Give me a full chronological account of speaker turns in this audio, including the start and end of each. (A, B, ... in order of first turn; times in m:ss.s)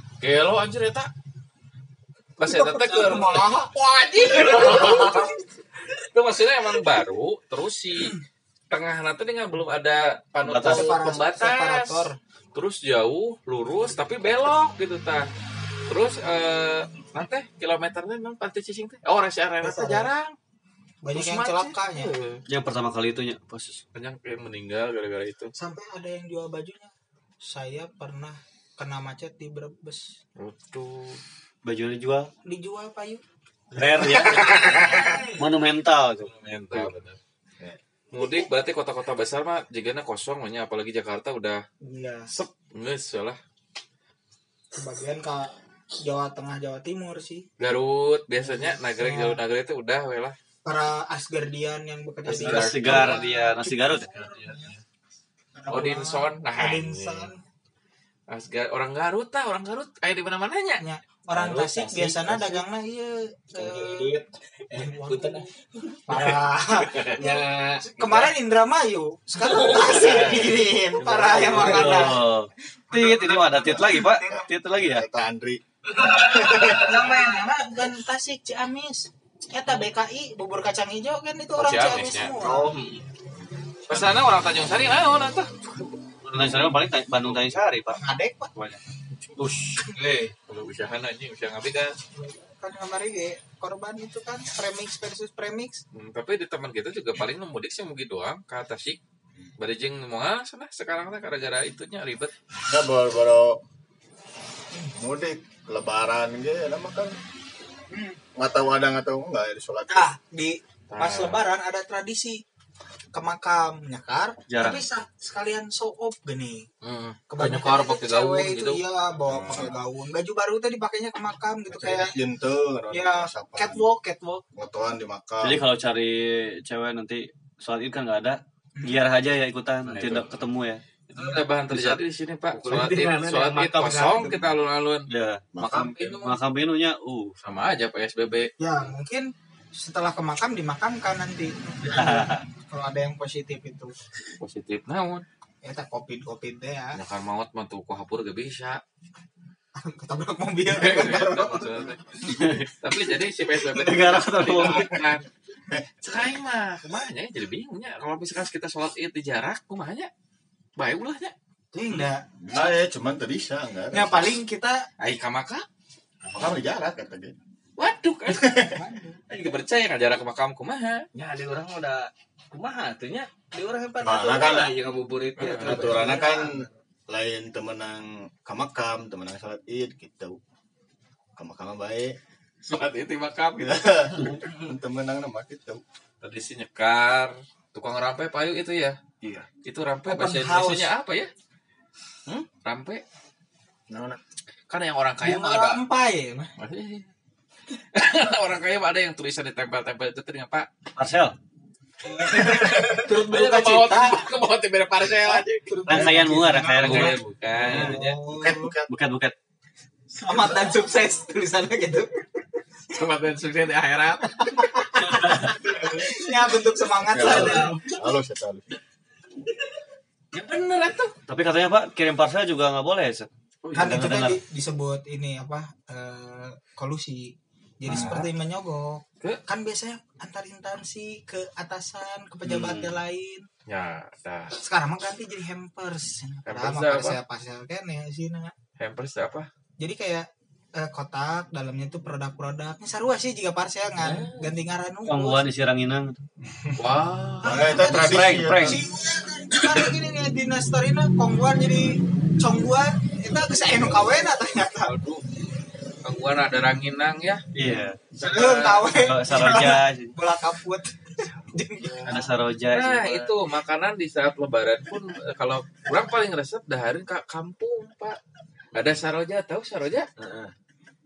0:00.2-0:01.1 A
0:02.4-0:05.4 A
0:02.5-0:05.3 B
0:05.9-0:08.2 A
0:08.7-0:15.3 A
0:10.4-0:11.0 C
0:10.6-0:12.2 B
0:15.9-0:20.3 A
0:19.6-0:20.1 B
0:21.0-0:22.1 B
0:21.1-0:22.4 A
0:22.5-0:23.8 C
0:23.9-0:25.5 A
0:25.6-0:30.2 B
0:30.4-0:31.2 A
0:31.6-0:32.3 C
0:32.5-0:33.2 B
0:33.7-0:36.9 C
0:34.1-0:35.3 A
0:36.2-0:37.2 A
0:38.1-0:41.6 A
0:41.8-0:42.3 B
0:42.3-0:43.4 A
0:44.7-0:47.5 B
0:47.6-0:50.4 A
0:49.0-0:49.4 B
0:50.6-0:54.8 B
0:52.3-0:54.1 C
0:52.4-0:53.2 A
0:54.2-0:54.7 A
0:55.6-0:57.4 B
0:55.7-0:57.3 A
0:58.3-1:00.8 A
1:00.8-1:04.2 B
1:01.3-1:02.6 D
1:03.6-1:06.4 D
1:04.8-1:05.5 B
1:06.1-1:12.2 B
1:06.9-1:07.1 A
1:07.1-1:08.3 D
1:09.4-1:10.4 D
1:09.9-1:12.0 A
1:11.3-1:15.0 C
1:11.5-1:12.0 D
1:12.9-1:14.4 B
1:14.8-1:16.9 E
1:15.9-1:17.3 D
1:16.6-1:22.7 B
1:21.6-1:22.4 A
1:22.4-1:23.0 D
1:23.9-1:25.5 A
1:26.2-1:28.0 C
1:27.9-1:28.5 B
1:28.6-1:28.8 C
1:29.4-1:30.1 C
1:30.0-1:30.3 D
1:30.5-1:32.0 A
1:32.1-1:35.8 B
1:35.9-1:39.0 A
1:39.6-1:42.3 A
1:42.6-1:43.6 E
1:44.9-1:47.2 E
1:47.9-1:48.2 B
1:48.4-1:50.1 E
1:49.9-1:52.4 B
1:50.9-1:51.4 A
1:53.1-1:56.7 B
1:54.5-1:54.9 C
1:56.8-1:58.8 A
1:57.3-2:02.2 B
1:59.3-1:59.8 E
1:59.4-1:59.6 A
2:01.7-2:03.8 E
2:02.9-2:04.4 B
2:04.6-2:05.6 E
2:05.4-2:10.8 C
2:08.8-2:09.1 B
2:09.8-2:10.4 A
2:11.1-2:15.1 A
2:11.7-2:12.0 C
2:12.6-2:14.4 D
2:12.7-2:13.0 C
2:15.1-2:15.4 C
2:15.5-2:16.2 E
2:15.6-2:16.4 A
2:16.2-2:17.3 C
2:17.4-2:18.5 A
2:18.6-2:23.9 B
2:21.8-2:22.4 C
2:24.4-2:25.2 A
2:25.6-2:27.0 B
2:27.0-2:28.8 A
2:29.8-2:32.0 B
2:30.7-2:35.3 A
2:32.3-2:32.6 C
2:33.6-2:35.0 C
2:35.7-2:36.1 E
2:36.0-2:40.1 A
2:40.8-2:41.3 A
2:41.7-2:42.2 B
2:42.4-2:44.3 E
2:43.9-2:44.9 B
2:45.0-2:45.7 A
2:46.3-2:47.4 E
2:47.8-2:48.6 A
2:48.3-2:48.8 E
2:48.7-2:49.2 B
2:49.3-2:51.1 A
2:51.2-2:56.6 D
2:54.0-2:54.8 E
2:55.4-2:55.8 A
2:55.6-3:00.4 E
2:55.8-2:56.6 B
3:01.4-3:02.2 E
3:02.7-3:03.8 A
3:03.6-3:05.8 E
3:06.2-3:09.0 A
3:09.2-3:09.5 E
3:09.6-3:11.3 A
3:10.1-3:10.9 B
3:12.4-3:13.0 A
3:13.9-3:14.2 E
3:14.7-3:15.8 A
3:15.2-3:16.5 B
3:16.6-3:17.1 A
3:17.8-3:20.7 A
3:21.0-3:21.4 C
3:22.1-3:24.3 B
3:22.3-3:25.7 A
3:22.5-3:23.0 D
3:25.2-3:28.7 B
3:25.9-3:27.2 C
3:26.8-3:28.2 A
3:27.6-3:28.9 E
3:28.9-3:29.3 C
3:30.2-3:32.2 B
3:32.9-3:34.4 A
3:34.4-3:37.8 B
3:37.1-3:38.8 E
3:37.2-3:38.0 D
3:40.3-3:41.1 A
3:41.3-3:44.4 C
3:43.6-3:44.1 A
3:43.8-3:53.5 B
3:47.9-3:48.3 A
3:52.4-3:53.0 C
3:53.7-3:54.6 A
3:54.6-3:58.5 B
3:56.5-3:57.2 A
3:58.8-3:59.5 A
3:59.8-4:05.5 B
4:04.0-4:04.5 A
4:05.1-4:06.2 C
4:06.8-4:08.2 A
4:07.4-4:08.8 E
4:07.4-4:15.0 B
4:07.9-4:08.8 C
4:14.8-4:15.2 A
4:16.0-4:17.4 A
4:17.6-4:18.0 C
4:18.1-4:19.0 A
4:18.2-4:22.3 B
4:18.9-4:20.1 C
4:22.0-4:23.3 C
4:22.7-4:28.2 A
4:28.7-4:30.1 A
4:30.2-4:30.5 D